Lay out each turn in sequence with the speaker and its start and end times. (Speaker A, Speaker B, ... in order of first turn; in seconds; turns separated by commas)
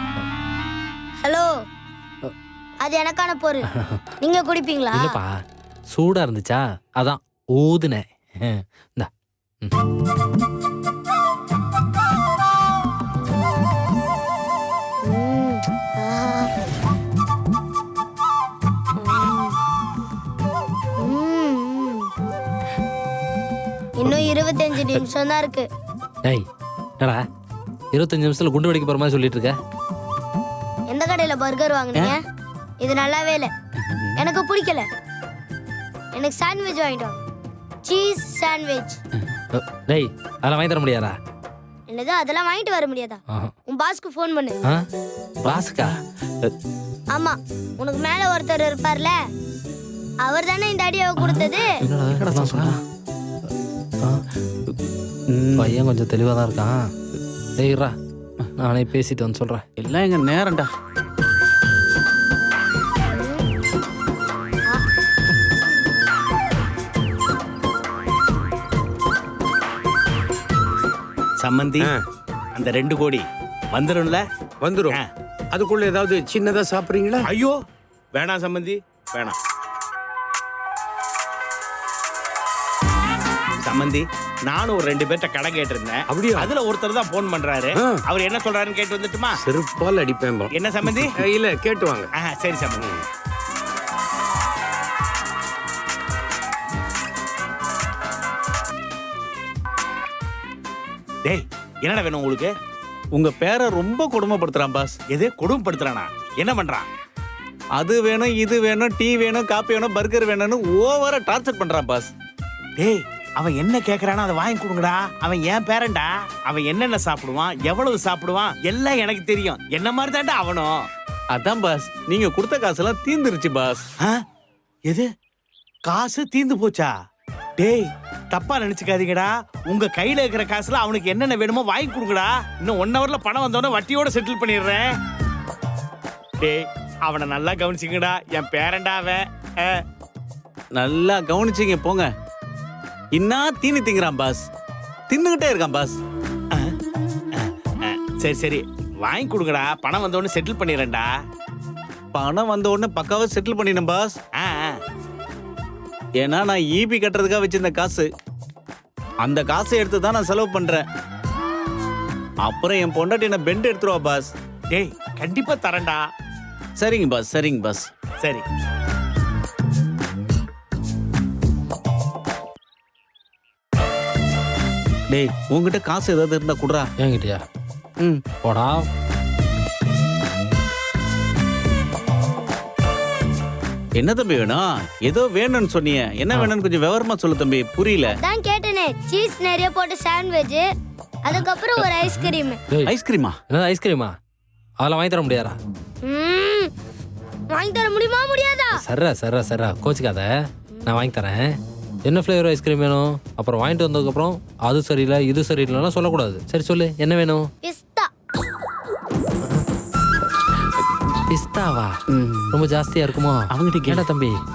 Speaker A: 1.2-1.5, Speaker A: 2.8-3.7, Speaker B: 3.7-4.0, Speaker A: 4.2-5.2, Speaker B: 4.9-5.4, Speaker B: 5.9-9.1, Speaker A: 15.0-16.5, Speaker A: 19.0-19.6, Speaker A: 21.0-22.1, Speaker A: 24.0-25.7, Speaker B: 27.9-29.5, Speaker A: 30.9-32.2, Speaker A: 32.8-33.5, Speaker C: 33.9-34.1, Speaker A: 34.1-34.9, Speaker A: 36.1-37.2, Speaker A: 37.8-39.0, Speaker B: 39.5-41.1, Speaker A: 41.9-44.6, Speaker B: 45.4-46.0, Speaker C: 45.5-45.9, Speaker A: 47.1-49.2, Speaker A: 50.2-51.8, Speaker C: 51.2-51.5, Speaker B: 51.8-52.8, Speaker C: 52.1-52.8, Speaker C: 55.3-55.8, Speaker B: 55.6-56.9, Speaker B: 57.6-57.9, Speaker B: 58.6-59.6, Speaker C: 59.8-60.7, Speaker A: 63.1-63.5, Speaker D: 71.4-71.9, Speaker D: 72.5-74.2, Speaker E: 74.6-75.0, Speaker E: 75.5-77.3, Speaker D: 78.1-79.4, Speaker D: 83.6-89.3, Speaker E: 86.1-86.5, Speaker E: 87.7-88.0, Speaker E: 89.4-92.1, Speaker D: 90.5-91.1, Speaker D: 92.2-92.8, Speaker E: 92.7-93.0, Speaker D: 101.2-102.5, Speaker C: 103.1-105.0, Speaker D: 105.1-106.9, Speaker C: 107.8-112.1, Speaker D: 112.8-120.9, Speaker C: 121.3-123.8, Speaker D: 125.9-126.9, Speaker D: 127.6-134.9, Speaker D: 136.4-139.8, Speaker C: 140.7-142.1, Speaker C: 143.1-144.4, Speaker C: 145.1-146.0, Speaker D: 147.3-151.1, Speaker C: 152.1-154.2, Speaker D: 154.3-154.8, Speaker C: 156.2-158.1, Speaker C: 159.2-160.8, Speaker C: 162.4-164.3, Speaker D: 164.7-166.0, Speaker C: 166.8-167.9, Speaker C: 175.1-176.9, Speaker B: 177.0-177.4, Speaker B: 178.4-178.8, Speaker A: 182.0-182.5, Speaker C: 184.0-188.2, Speaker A: 188.1-190.7, Speaker A: 191.2-192.6, Speaker C: 191.3-192.2, Speaker C: 192.9-193.4, Speaker B: 193.5-194.1, Speaker B: 194.8-195.6, Speaker A: 196.0-196.7, Speaker A: 197.5-198.8, Speaker B: 198.8-200.3, Speaker A: 200.7-201.1, Speaker B: 200.9-201.5, Speaker B: 202.0-207.5, Speaker A: 207.6-208.1, Speaker B: 211.3-211.9, Speaker C: 212.1-212.6, Speaker B: 212.5-214.3, Speaker C: 213.5-214.1